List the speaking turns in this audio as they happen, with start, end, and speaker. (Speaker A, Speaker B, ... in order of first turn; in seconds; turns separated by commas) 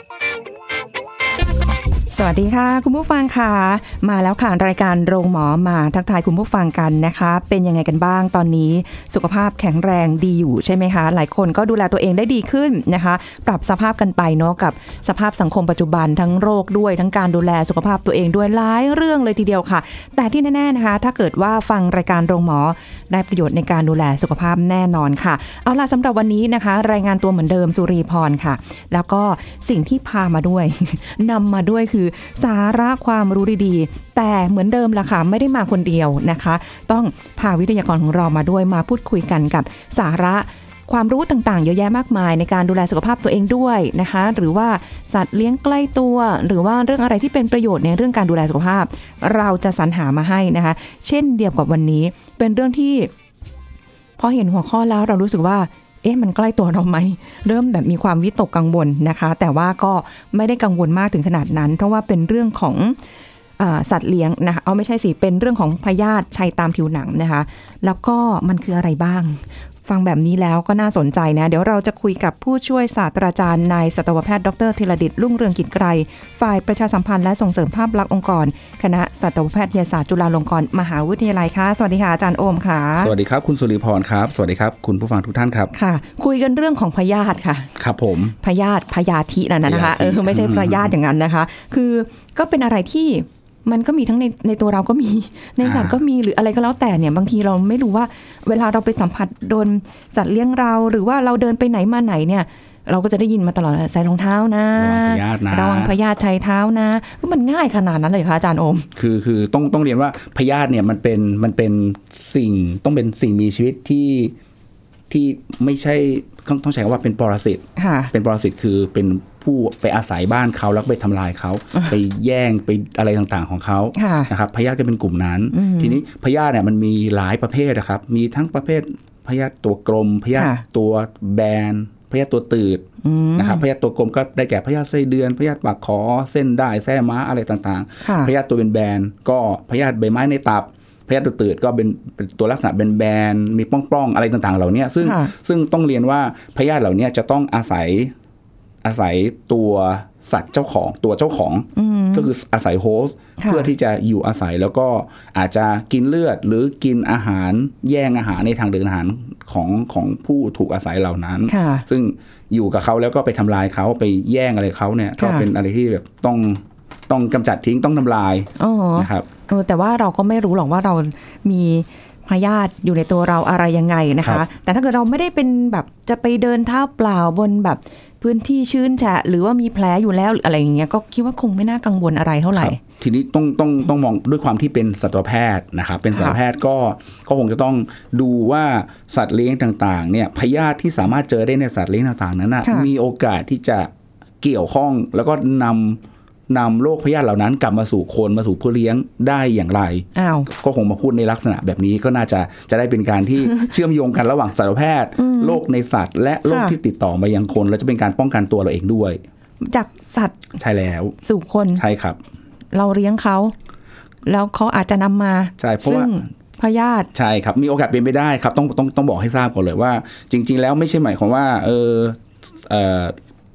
Speaker A: 2.1-53.1, Speaker A: 54.2-63.0, Speaker A: 63.6-83.1, Speaker B: 83.0-85.7, Speaker A: 85.7-87.7, Speaker B: 87.8-88.3, Speaker A: 88.4-108.9, Speaker B: 89.7-90.9, Speaker B: 95.6-96.0, Speaker B: 104.8-106.0, Speaker B: 109.0-114.3, Speaker B: 115.1-148.1, Speaker A: 117.8-118.1, Speaker A: 124.0-124.3, Speaker A: 125.5-126.0, Speaker A: 130.3-130.6, Speaker A: 133.0-133.6, Speaker A: 138.0-138.3, Speaker A: 145.0-145.3, Speaker B: 148.8-169.3, Speaker A: 151.8-152.3, Speaker A: 153.4-153.7, Speaker A: 161.5-161.8, Speaker A: 165.2-165.5, Speaker A: 168.6-182.8, Speaker B: 182.5-193.9, Speaker A: 186.1-186.4, Speaker B: 194.4-209.2, Speaker A: 200.2-200.5, Speaker A: 205.2-205.6, Speaker A: 206.5-206.8, Speaker A: 209.6-210.5, Speaker B: 210.6-211.2, Speaker A: 211.2-211.8, Speaker B: 211.8-212.2, Speaker A: 212.7-213.5, Speaker A: 214.3-217.1, Speaker B: 215.6-216.3, Speaker B: 217.1-223.2